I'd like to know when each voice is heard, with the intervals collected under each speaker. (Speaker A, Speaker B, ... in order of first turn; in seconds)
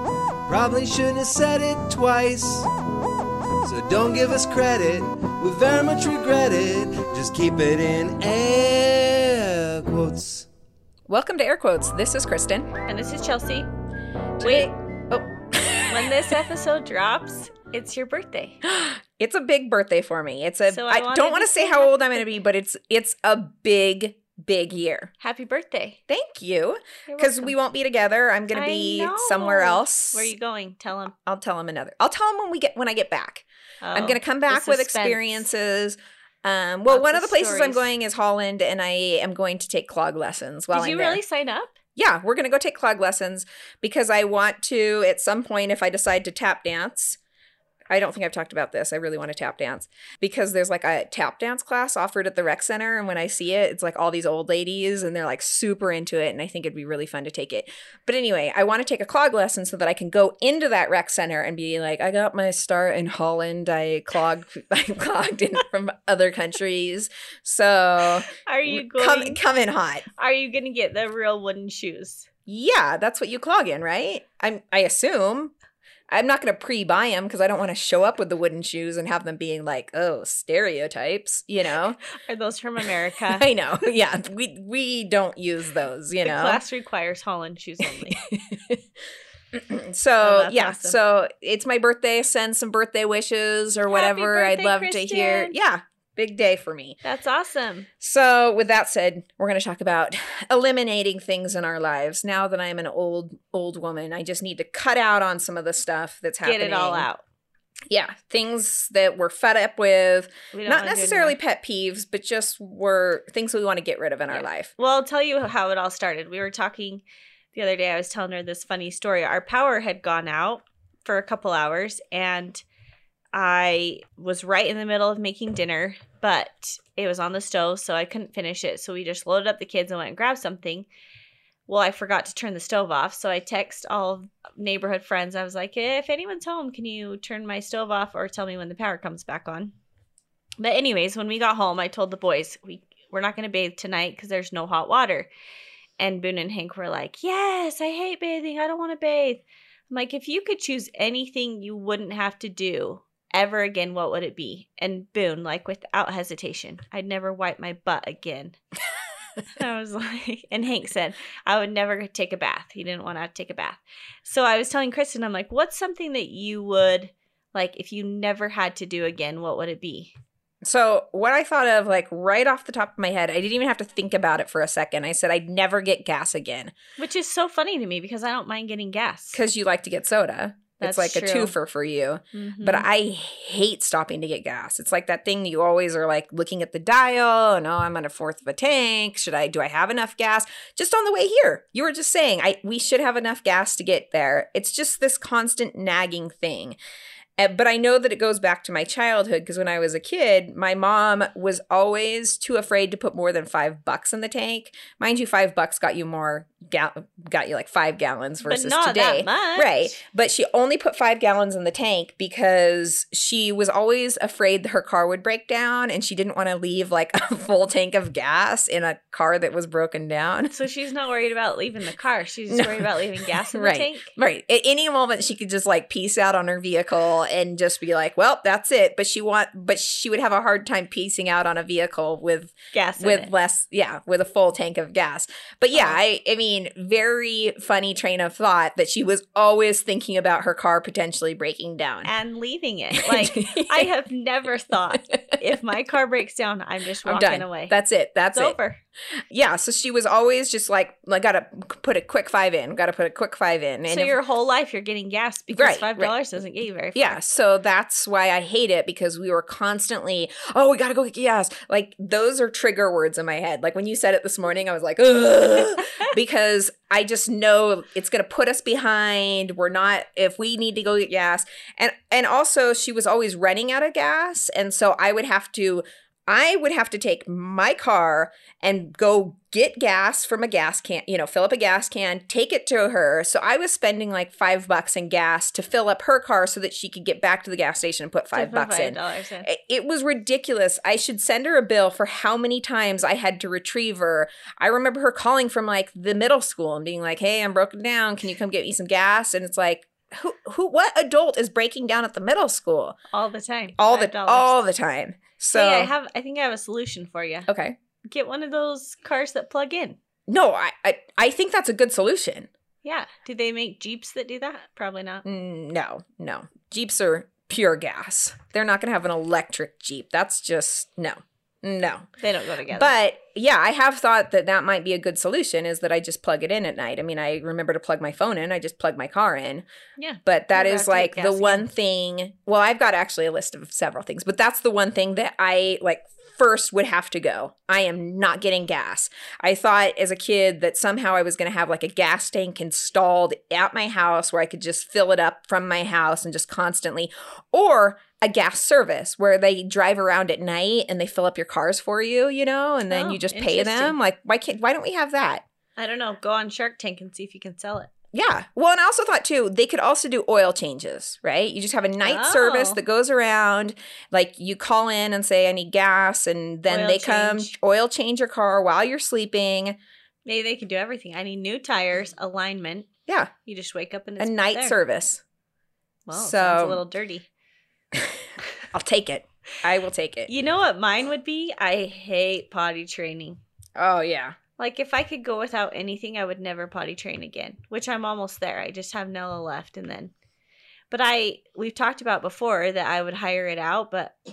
Speaker A: 0.5-2.7, 3.6-10.5
Speaker B: 11.1-12.7, 14.4-16.2, 18.6-25.1, 26.1-30.3, 31.2-41.2, 42.0-47.2, 47.9-70.0, 72.5-75.5, 76.1-82.0, 83.3-86.6, 87.8-88.8, 89.5-97.0, 98.0-107.1, 107.9-114.7, 170.6-176.7, 179.3-196.8, 197.4-220.5, 222.5-222.9, 223.5-242.1, 242.9-243.9, 247.0-248.6, 249.3-254.1, 255.5-256.1, 256.9-303.0, 303.8-305.9, 307.5-307.8, 310.3-312.5, 315.2-322.1, 322.7-329.6, 330.2-355.4, 358.1-369.8, 374.2-375.2, 376.1-376.8, 377.9-380.3, 383.8-384.4
Speaker C: 12.8-13.7, 14.4-14.7, 15.9-18.6, 20.7-22.4, 25.2-26.0, 27.1-27.5, 28.5-31.1, 33.8-35.4, 36.9-37.8, 40.7-41.7, 68.3-69.4, 70.2-72.3, 82.1-83.5, 86.2-88.2, 90.2-91.0, 93.9-95.5, 97.0-97.9, 106.4-107.2, 110.5-111.3, 114.3-122.6, 123.3-130.8, 131.7-139.7, 140.6-145.3, 146.0-158.6, 159.6-170.1, 177.0-179.4, 180.8-181.5, 182.3-182.8, 208.4-210.0, 220.5-224.1, 232.7-233.3, 242.0-247.7, 248.3-248.8, 253.8-257.2, 288.3-289.5, 303.1-304.6, 305.5-307.5, 308.1-310.0, 312.8-315.2, 322.2-322.9, 330.0-331.6, 352.9-353.9, 355.8-357.9, 362.0-362.8, 366.7-367.5, 370.2-372.9, 373.4-374.8, 376.1-377.2, 380.3-383.4, 384.6-390.1, 390.9-394.1